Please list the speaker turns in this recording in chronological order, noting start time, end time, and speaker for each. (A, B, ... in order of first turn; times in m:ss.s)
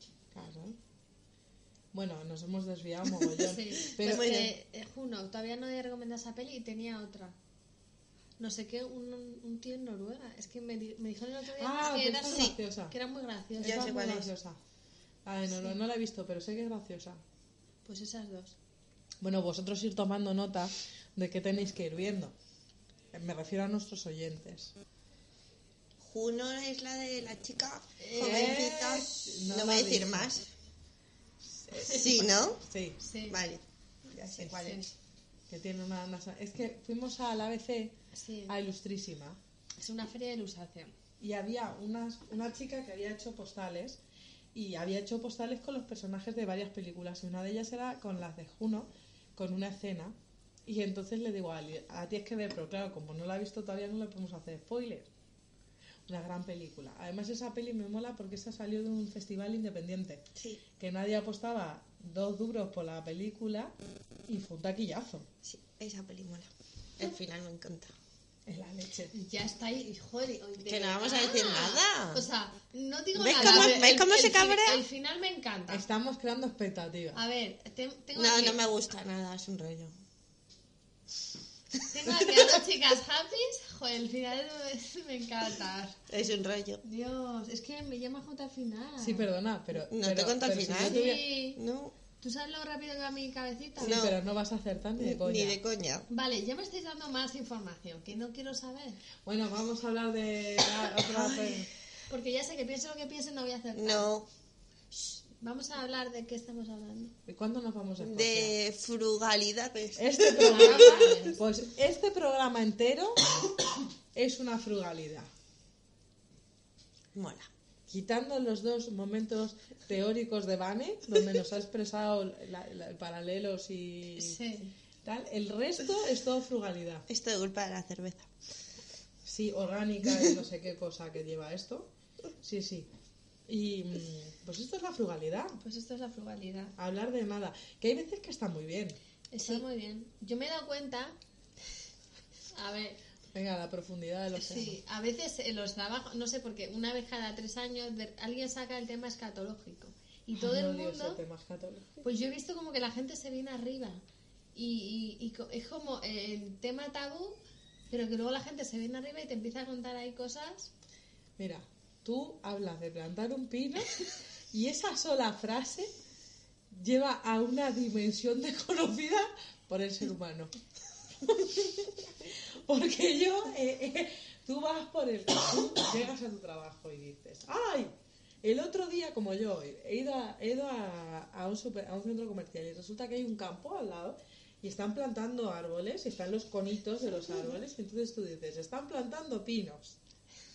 0:00.3-0:00.8 A
0:01.9-0:04.4 A
0:03.4-0:07.4 B
0:04.0-0:04.5 C
0:08.4-0:14.1 B
0:11.6-0:12.9 A
0:13.6-0:14.3 C
0:13.6-0:14.6 A
0:15.2-0:17.2 A
0:17.8-0:18.6 B
0:19.2-0:22.3 A
0:23.1-0:24.7 A
0:26.0-0:30.5 C
0:28.0-0:28.6 B
0:28.2-0:30.3 A
0:31.4-0:33.0 A
0:31.8-0:32.6 C
0:33.0-0:33.4 B
0:33.3-0:34.9 C
0:34.6-0:34.9 B
0:35.5-0:38.0 A
0:38.1-0:38.6 B
0:38.5-0:39.4 A
0:39.8-0:40.9 B
0:41.2-0:44.0 A
0:44.5-0:50.1 A
0:50.6-0:55.1 A
0:56.1-1:00.2 A
1:00.4-1:00.6 C
1:00.8-1:03.7 A
1:04.3-1:05.3 A
1:05.4-1:07.9 C
1:08.5-1:09.1 A
1:09.1-1:15.8 B
1:10.7-1:12.3 C
1:13.2-1:14.8 C
1:13.3-1:13.8 A
1:15.7-1:17.2 A
1:17.1-1:18.6 B
1:18.1-1:19.9 C
1:21.9-1:26.0 B
1:22.1-1:22.4 C
1:26.1-1:26.8 C
1:26.8-1:29.3 B
1:29.0-1:31.2 A
1:29.8-1:31.9 C
1:30.8-1:31.6 B
1:32.2-1:34.0 B
1:33.8-1:35.6 A
1:33.8-1:34.1 C
1:35.0-1:36.0 C
1:36.1-1:39.0 B
1:39.2-1:41.7 A
1:41.0-1:41.7 C
1:42.1-1:44.1 B
1:43.7-1:44.3 C
1:45.4-1:47.1 B
1:47.2-1:48.5 A
1:48.0-1:51.1 C
1:50.0-1:53.3 A
1:50.4-1:51.4 B
1:54.1-1:55.3 A
1:57.1-1:57.5 C
1:57.9-2:04.4 A
2:04.1-2:04.7 B
2:05.0-2:07.1 A
2:07.1-2:08.3 C
2:09.2-2:11.9 A
2:12.4-2:12.9 A
2:13.5-2:15.6 A
2:15.6-2:16.7 B
2:16.8-2:19.0 A
2:19.3-2:21.2 B
2:22.5-2:23.0 B
2:23.3-2:24.8 A
2:24.4-2:31.2 B
2:30.4-2:32.0 A
2:32.0-2:34.0 B
2:34.5-2:40.7 B
2:41.4-2:45.9 A
2:46.7-2:50.5 A
2:51.2-3:10.0 A